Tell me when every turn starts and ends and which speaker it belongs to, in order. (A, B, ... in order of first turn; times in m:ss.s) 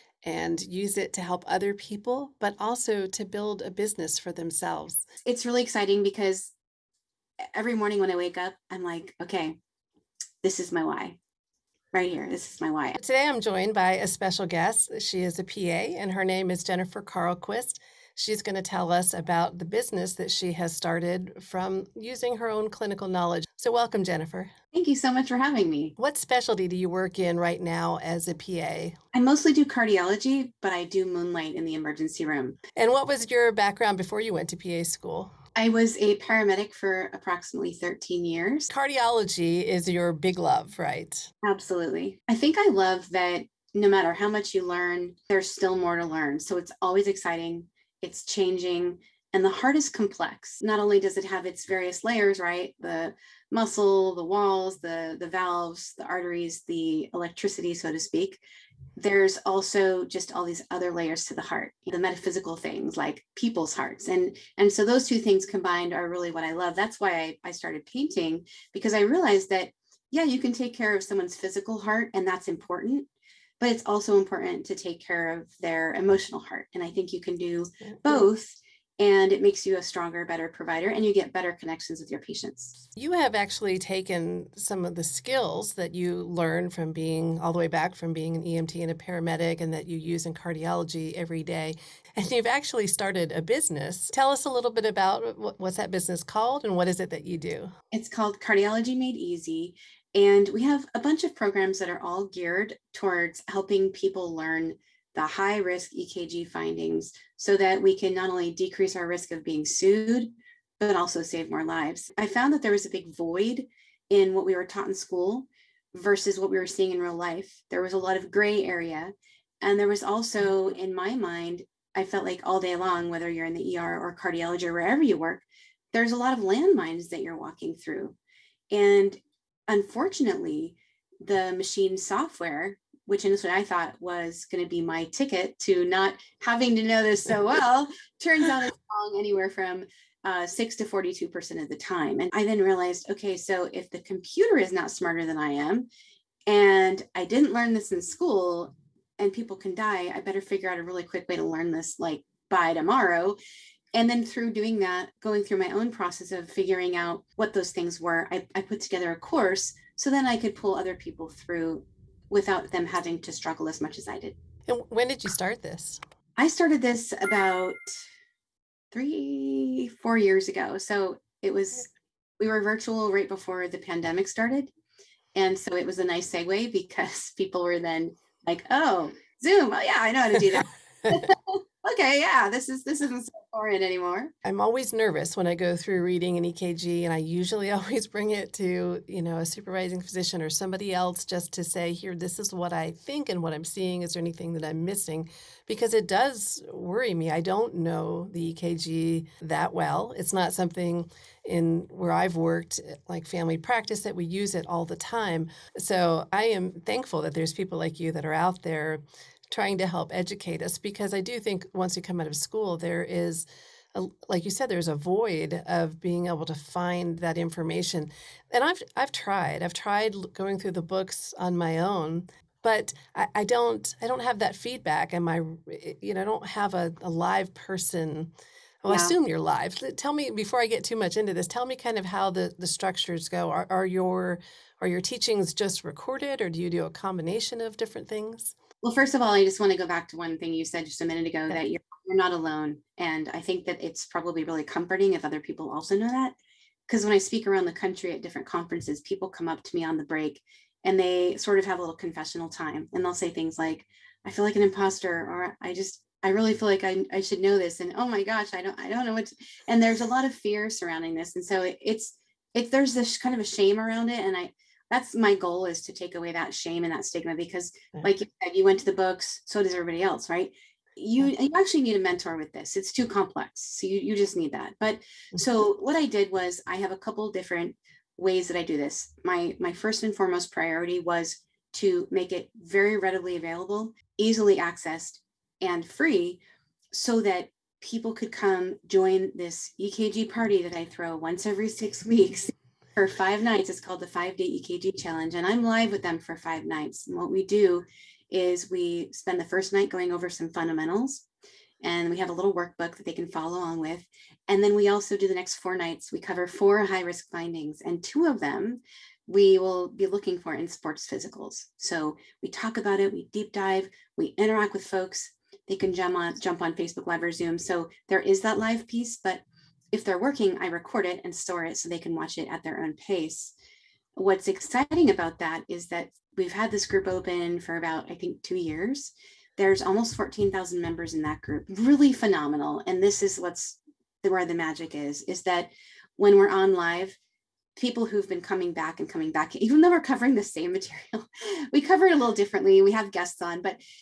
0:00.2-0:05.1 A
0:05.2-0:06.5 B
0:07.5-0:09.6 B
0:10.4-0:11.2 B
0:11.9-0:13.0 B
0:13.0-0:24.5 A
0:24.7-0:25.9 B
0:26.0-0:29.0 A
0:29.1-0:32.6 B
0:32.8-0:35.3 A
0:35.5-0:38.7 B
0:38.7-0:41.3 A
0:41.4-0:58.4 B
0:59.0-1:13.1 B
1:13.6-1:22.8 B
1:23.0-1:37.7 A
1:37.9-2:08.2 B
2:08.7-2:25.9 B
2:26.5-2:33.4 B
2:33.9-2:44.4 B
2:44.7-2:46.0 A
2:46.4-2:48.0 B
2:48.9-2:54.7 B
2:55.3-3:04.3 B
3:04.4-3:48.3 A
3:48.8-3:58.6 A
3:48.9-3:49.1 B
3:58.8-4:06.4 B
4:06.9-4:46.4 B
4:46.9-5:01.2 B
5:01.8-5:23.5 B
5:24.2-5:37.2 B
5:37.8-5:43.8 B